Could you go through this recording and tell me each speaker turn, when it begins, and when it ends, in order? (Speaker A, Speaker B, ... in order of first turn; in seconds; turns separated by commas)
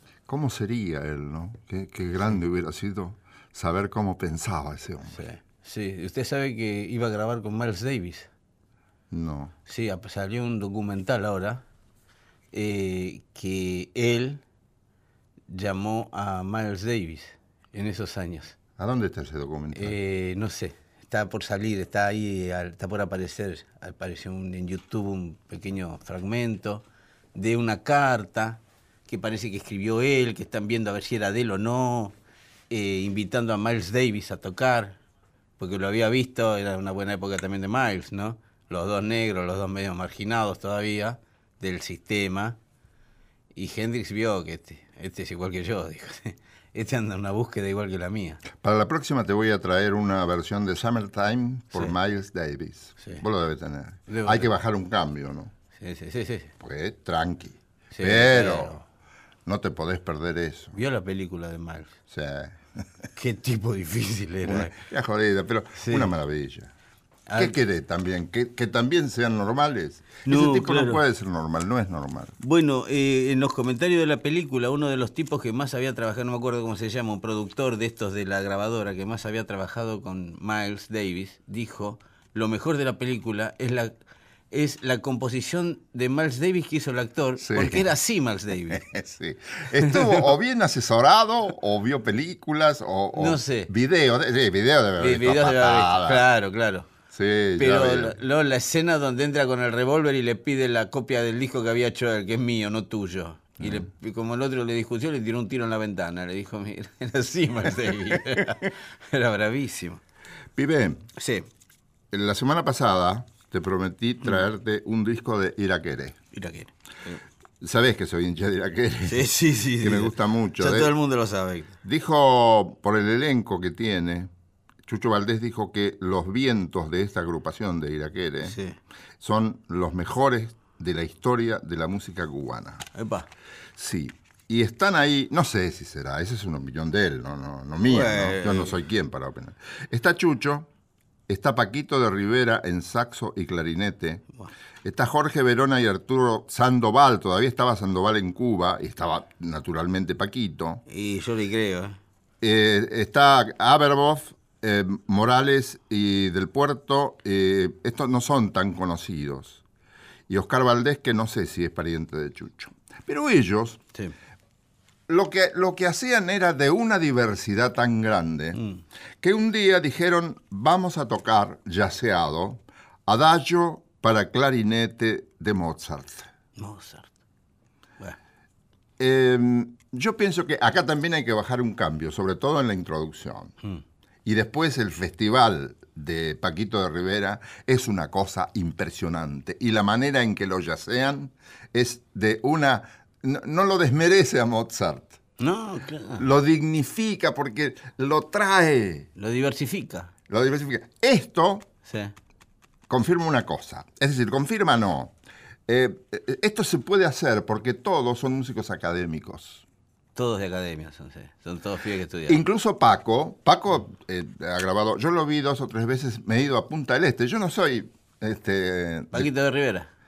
Speaker A: 0.3-5.2, Speaker B: 5.1-8.3, Speaker A: 9.1-9.5, Speaker B: 9.7-11.6, Speaker B: 12.5-14.4, Speaker B: 15.5-18.5, Speaker A: 18.8-20.0, Speaker B: 19.8-32.1, Speaker B: 32.7-35.0, Speaker B: 35.6-42.6, Speaker B: 43.5-48.4, Speaker A: 48.5-55.5, Speaker B: 54.1-54.5, Speaker B: 55.7-56.5, Speaker A: 56.6-58.8, Speaker B: 57.9-58.8, Speaker A: 59.5-60.8, Speaker B: 60.7-62.0, Speaker A: 62.1-62.9, Speaker B: 63.1-64.7, Speaker A: 64.5-66.7, Speaker B: 65.8-66.1, Speaker B: 67.3-67.6, Speaker A: 67.3-72.3, Speaker B: 70.2-71.0, Speaker B: 72.4-83.9, Speaker B: 84.5-89.0, Speaker A: 87.4-87.9, Speaker A: 88.7-96.3, Speaker B: 89.8-90.1, Speaker B: 93.2-93.7, Speaker B: 95.0-96.9, Speaker A: 97.1-98.2, Speaker B: 97.6-110.0, Speaker A: 110.5-111.0, Speaker B: 111.2-111.5, Speaker A: 112.1-116.2, Speaker B: 116.3-117.2, Speaker A: 117.6-120.9, Speaker B: 119.0-121.8, Speaker A: 121.8-124.3, Speaker A: 124.8-128.6, Speaker B: 128.4-128.8, Speaker A: 129.2-132.9, Speaker B: 132.9-133.3, Speaker A: 133.8-140.7, Speaker B: 137.8-138.8, Speaker A: 141.3-144.2, Speaker A: 144.8-150.8, Speaker B: 150.9-152.0, Speaker A: 152.4-159.6, Speaker A: 160.3-163.8, Speaker A: 165.1-168.6, Speaker B: 168.5-168.8, Speaker A: 169.2-176.3, Speaker B: 176.6-177.1, Speaker A: 179.0-183.5, Speaker A: 184.2-195.2, Speaker B: 195.4-196.2, Speaker A: 196.2-199.1, Speaker B: 199.2-200.1, Speaker A: 200.3-201.7, Speaker B: 201.8-202.1, Speaker A: 202.9-205.1, Speaker A: 205.7-209.6, Speaker B: 210.2-212.4, Speaker A: 212.3-219.3, Speaker B: 219.1-219.9